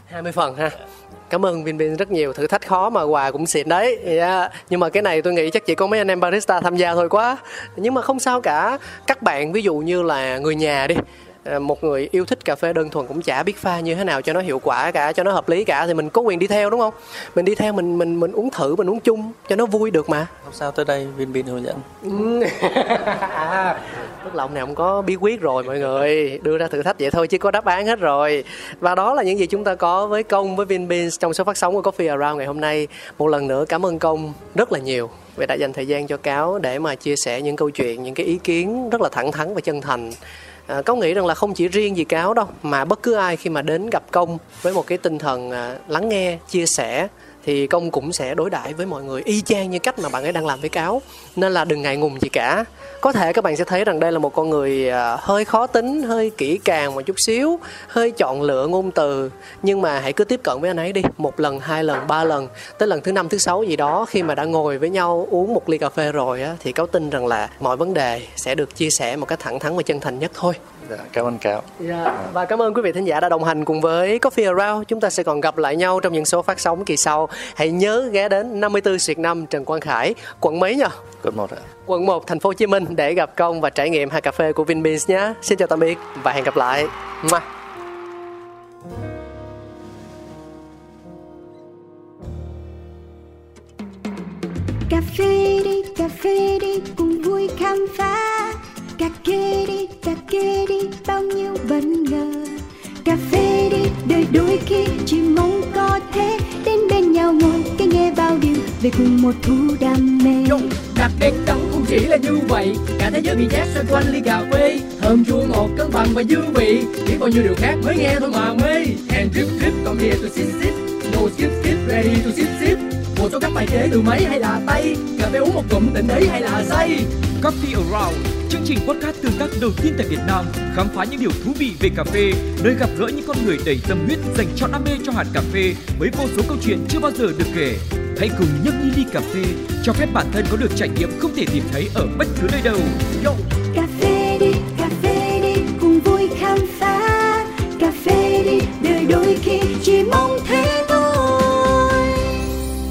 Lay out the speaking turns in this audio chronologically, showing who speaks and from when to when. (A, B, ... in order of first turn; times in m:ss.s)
0:00.1-0:20.3 A
0:20.4-0:21.9 B
0:22.0-1:10.6 A
1:10.8-1:12.3 B
1:11.8-1:21.0 A
1:21.2-1:21.7 B
1:21.9-1:27.5 A
1:34.9-1:50.7 C
1:50.5-2:07.1 D
2:07.4-2:23.0 E
2:23.7-2:32.3 C